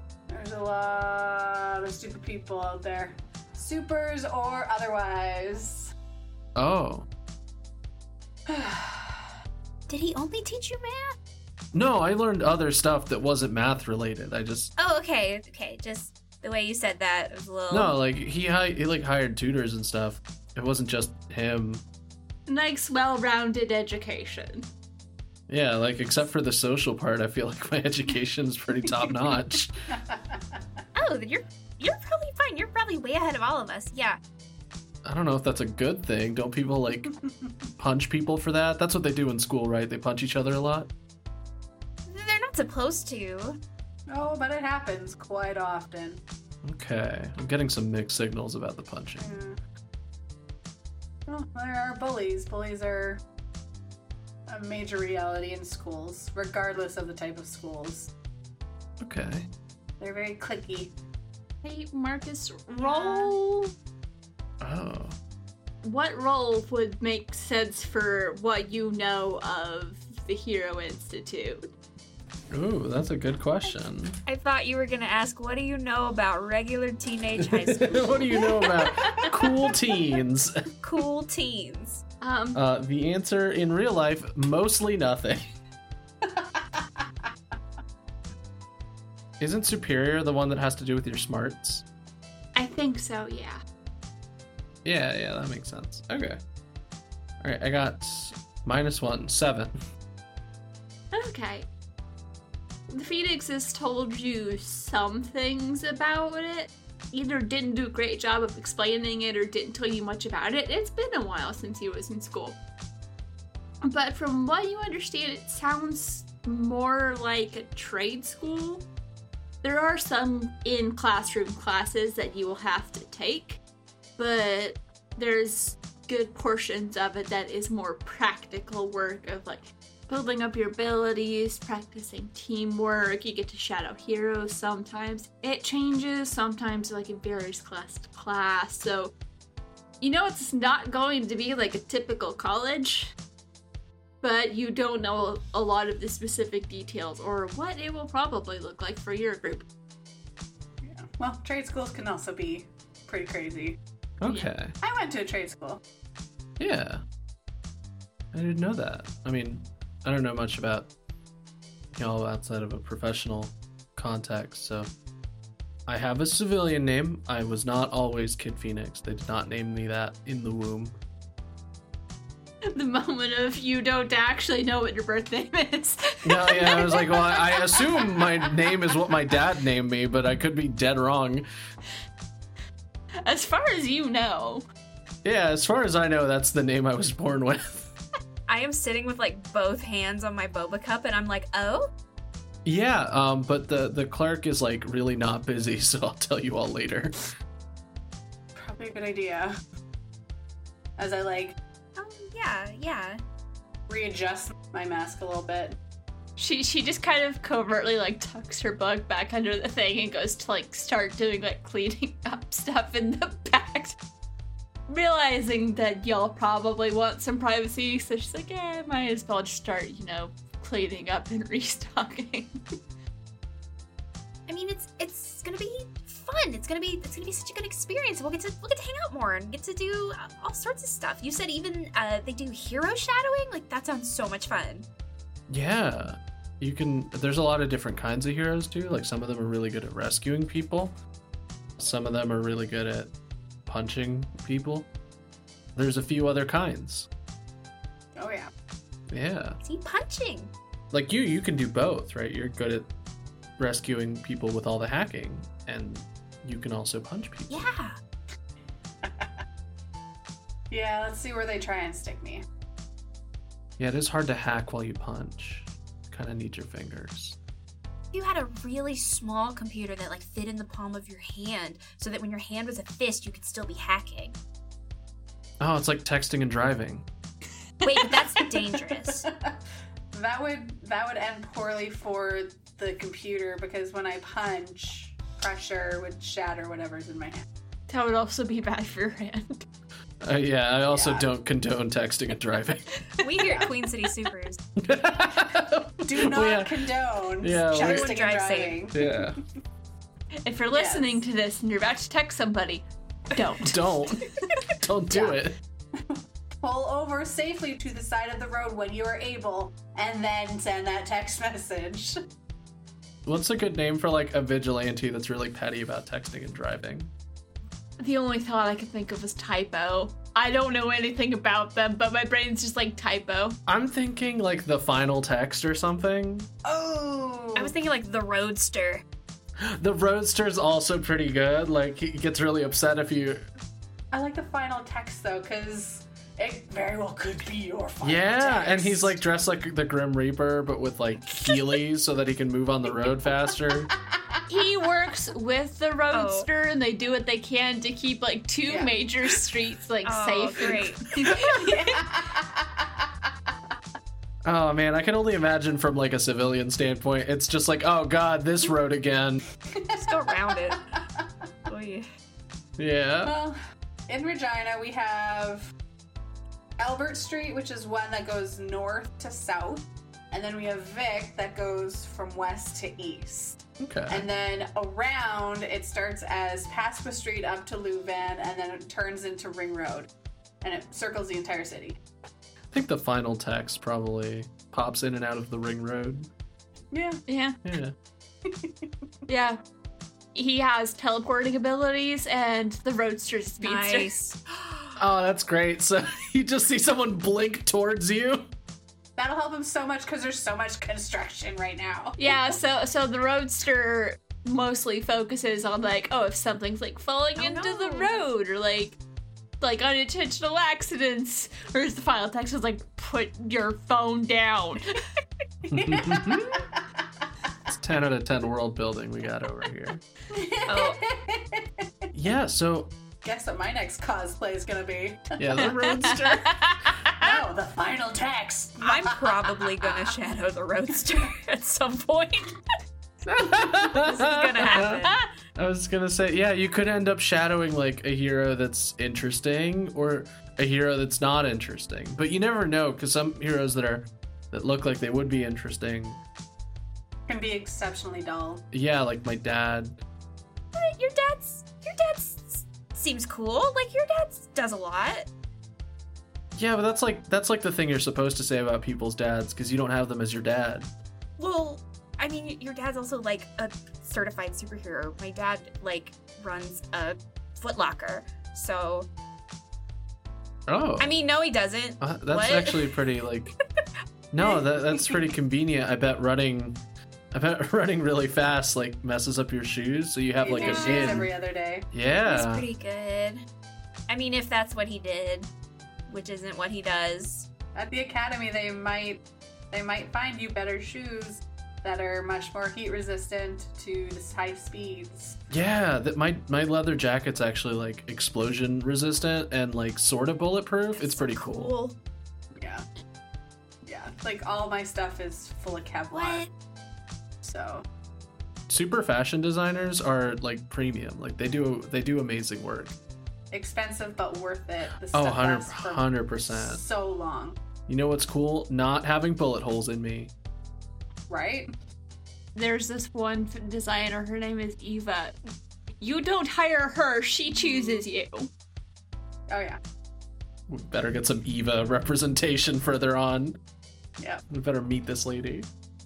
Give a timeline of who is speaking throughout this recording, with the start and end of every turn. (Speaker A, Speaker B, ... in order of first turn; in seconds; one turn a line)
Speaker A: 0.3-5.9
Speaker B: 6.5-7.1
Speaker A: 8.5-9.3
Speaker C: 9.9-11.2
Speaker B: 11.7-14.7
Speaker C: 14.8-17.9
Speaker B: 17.7-21.8
Speaker D: 22.5-24.7
Speaker B: 25.5-29.7
Speaker A: 29.9-30.6
Speaker C: 30.9-34.2
Speaker B: 35.0-37.1
Speaker A: 37.1-37.5
Speaker B: 37.8-40.9
Speaker C: 42.1-43.6
Speaker A: 44.1-46.2
Speaker B: 46.6-49.3
Speaker A: 49.2-49.6
Speaker A: 51.3-53.2
Speaker A: 54.5-58.1
Speaker B: 59.0-59.5
Speaker A: 60.0-60.9
Speaker D: 61.6-63.7
Speaker B: 64.6-65.2
Speaker D: 65.8-71.7
Speaker B: 72.5-74.2
Speaker C: 74.2-78.5
Speaker B: 77.4-80.5
Speaker A: 78.8-79.3
Speaker C: 80.8-82.0
Speaker D: 82.2-82.6
Speaker B: 82.5-85.5
Speaker A: 86.3-87.0
Speaker B: 89.4-91.8
Speaker D: 92.5-93.6
Speaker B: 94.8-96.4
Speaker B: 97.4-99.7
Speaker D: 101.1-101.7
Speaker D: 102.9-112.5
Speaker D: 113.8-118.8
Speaker D: 119.6-123.6
Speaker D: 124.2-139.1
Speaker D: 140.0-143.1
Speaker D: 144.2-149.7
Speaker A: 150.8-153.8
Speaker B: 154.2-154.7
Speaker A: 154.8-155.8
Speaker B: 156.6-157.0
Speaker B: 158.3-160.9
Speaker B: 161.9-164.9
Speaker B: 165.9-170.9
Speaker D: 172.7-178.3
Speaker B: 176.2-181.4
Speaker D: 183.2-184.6
Speaker B: 185.2-187.9
Speaker C: 188.5-191.9
Speaker B: 192.6-197.2
Speaker A: 198.6-199.6
Speaker A: 201.0-201.6
Speaker C: 201.9-203.2
Speaker A: 203.9-205.8
Speaker D: 206.4-214.0
Speaker D: 214.9-222.6
Speaker C: 224.5-234.9
Speaker B: 235.5-240.9
Speaker B: 241.8-243.1
Speaker B: 243.7-244.9
Speaker B: 245.8-247.1
Speaker A: 248.2-248.5
Speaker B: 249.1-249.6
Speaker C: 249.6-250.5
Speaker B: 250.9-252.9
Speaker B: 253.6-257.6
Speaker C: 257.5-257.9
Speaker A: 259.0-259.3
Speaker A: 260.7-262.4
Speaker B: 263.8-267.4
Speaker C: 268.1-274.4
Speaker B: 275.6-277.1
Speaker C: 277.8-279.3
Speaker A: 278.1-278.4
Speaker A: 279.0-279.5
Speaker A: 280.1-287.4
Speaker D: 287.9-289.6
Speaker B: 290.2-293.0
Speaker A: 290.9-291.3
Speaker C: 293.2-294.6
Speaker A: 293.4-293.7
Speaker B: 294.8-296.9
Speaker A: 296.0-299.3
Speaker B: 297.4-298.1
Speaker C: 297.8-298.8
Speaker B: 298.9-299.4
Speaker D: 300.4-303.8
Speaker A: 300.7-301.2
Speaker B: 303.6-305.6
Speaker A: 305.1-305.4
Speaker A: 305.9-312.2
Speaker B: 313.2-317.1
Speaker D: 318.0-323.6
Speaker B: 323.7-326.5
Speaker A: 326.6-327.7
Speaker C: 327.6-329.0
Speaker B: 329.6-333.5
Speaker A: 334.1-339.1
Speaker B: 338.0-343.9
Speaker D: 344.5-351.8
Speaker C: 346.1-346.5
Speaker A: 348.7-348.9
Speaker C: 350.0-351.7
Speaker A: 351.2-353.1
Speaker B: 354.4-359.4
Speaker A: 359.7-361.2
Speaker C: 359.9-360.8
Speaker C: 361.7-362.1
Speaker B: 362.8-363.3
Speaker A: 363.2-365.7
Speaker A: 366.8-373.6
Speaker B: 373.8-374.3
Speaker A: 374.1-380.1
Speaker A: 380.6-382.0
Speaker B: 382.7-386.3
Speaker A: 386.9-387.2
Speaker D: 387.3-387.6
Speaker B: 387.6-387.9
Speaker A: 388.4-388.7
Speaker D: 389.3-389.6
Speaker D: 390.3-394.1
Speaker C: 393.6-395.0
Speaker B: 395.0-398.5
Speaker A: 399.2-402.2
Speaker D: 402.2-409.0
Speaker C: 407.4-408.2
Speaker D: 409.6-415.0
Speaker A: 415.6-416.8
Speaker B: 415.7-416.6
Speaker B: 417.7-420.0
Speaker A: 420.3-421.8
Speaker C: 420.7-421.0
Speaker B: 422.1-422.9
Speaker A: 423.2-426.1
Speaker B: 425.4-426.5
Speaker D: 425.7-427.3
Speaker A: 427.1-430.0
Speaker C: 428.8-432.6
Speaker B: 433.2-446.2
Speaker C: 433.9-435.2
Speaker A: 447.3-448.6
Speaker B: 448.7-450.0
Speaker C: 450.7-455.3
Speaker B: 456.5-460.9
Speaker C: 461.4-469.1
Speaker B: 470.7-471.1
Speaker C: 471.0-472.8
Speaker B: 472.0-473.5
Speaker B: 474.3-476.8
Speaker B: 477.3-481.3
Speaker A: 480.4-481.9
Speaker C: 480.5-481.2
Speaker B: 481.9-482.7
Speaker C: 482.2-483.4
Speaker C: 484.1-485.5
Speaker C: 486.1-487.5
Speaker A: 487.7-489.2
Speaker A: 489.7-495.4
Speaker B: 495.5-501.7
Speaker C: 500.9-501.9
Speaker A: 502.6-502.8
Speaker A: 503.8-506.4
Speaker C: 506.1-506.5
Speaker A: 507.4-507.8
Speaker B: 508.7-512.9
Speaker A: 513.5-517.6
Speaker B: 515.1-516.8
Speaker B: 517.9-520.3
Speaker A: 521.3-521.7
Speaker D: 522.5-525.4
Speaker D: 526.0-528.5
Speaker A: 529.5-529.8
Speaker B: 530.7-533.6
Speaker B: 534.5-535.7